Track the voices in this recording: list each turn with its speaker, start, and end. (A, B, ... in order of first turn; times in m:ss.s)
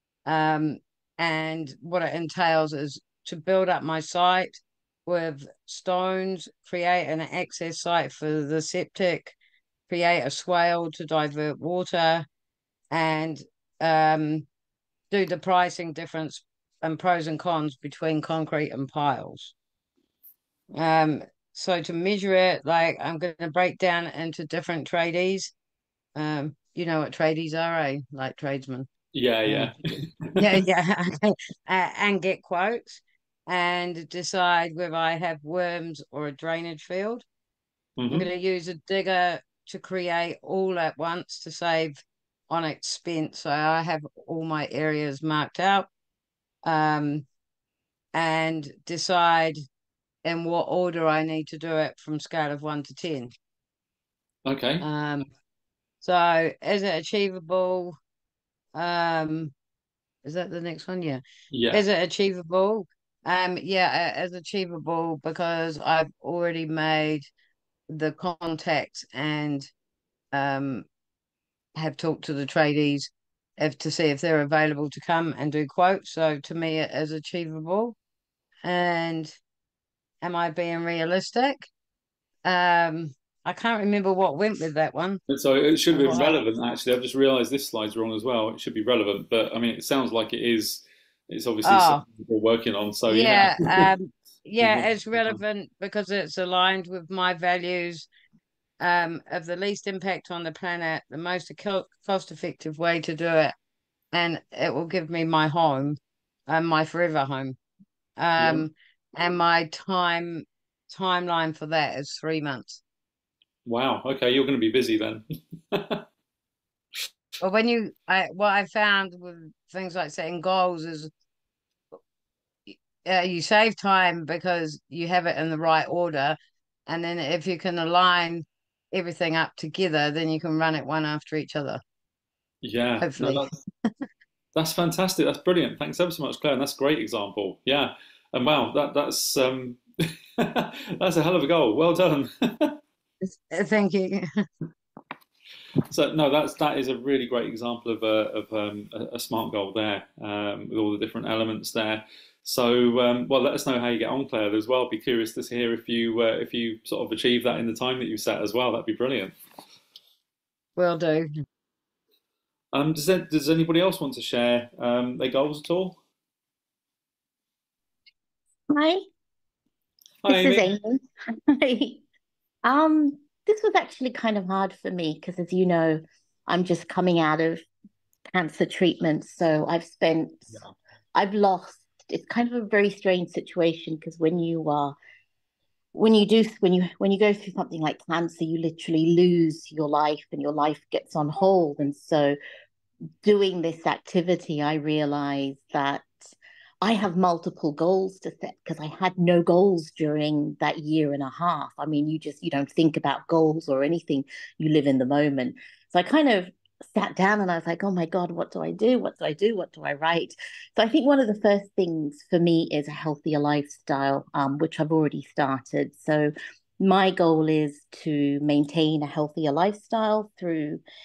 0:00.3-0:09.4 A
0:09.9-0:12.3 A
0:12.9-0:14.5 A
0:15.1-0:19.5 A
0:20.8-0:25.5 A
0:26.2-0:28.9 A
0:29.1-0:30.6 B
0:29.5-0:29.8 A
0:30.4-0:37.3 A
0:38.0-0:38.3 B
0:38.1-0:45.9 A
0:46.6-0:47.3 A
0:48.2-0:49.6 A
0:50.2-0:53.3 A
0:54.5-0:54.9 B
0:54.8-0:55.3 A
0:56.0-0:58.0 A
0:58.8-0:59.5 A
1:00.2-1:07.3 A
1:01.5-1:01.8 B
1:07.9-1:09.7 A
1:10.3-1:10.9 A
1:11.8-1:18.0 A
1:18.6-1:19.4 A
1:20.2-1:21.7 A
1:22.4-1:25.2 A
1:25.3-1:33.9 B
1:25.9-1:26.4 A
1:31.6-1:32.0 A
1:33.1-1:38.1 A
1:34.6-1:35.4 B
1:38.8-1:43.6 A
1:44.1-1:47.6 A
1:48.2-1:52.8 A
1:48.4-1:48.7 B
1:53.7-1:56.0 B
1:57.4-2:01.1 A
2:02.7-2:06.4 A
2:06.9-2:11.8 A
2:12.6-2:13.5 B
2:13.0-2:13.5 A
2:14.6-2:22.8 B
2:23.2-2:24.2 A
2:25.9-2:39.3 B
2:40.8-2:41.3 A
2:42.7-2:46.0 B
2:48.7-2:49.0 C
2:50.2-2:50.7 B
2:50.3-2:52.0 C
2:52.6-2:57.6 C
2:58.3-3:00.6 C
3:01.2-3:05.0 C
3:05.9-3:12.4 C
3:13.2-3:40.8 C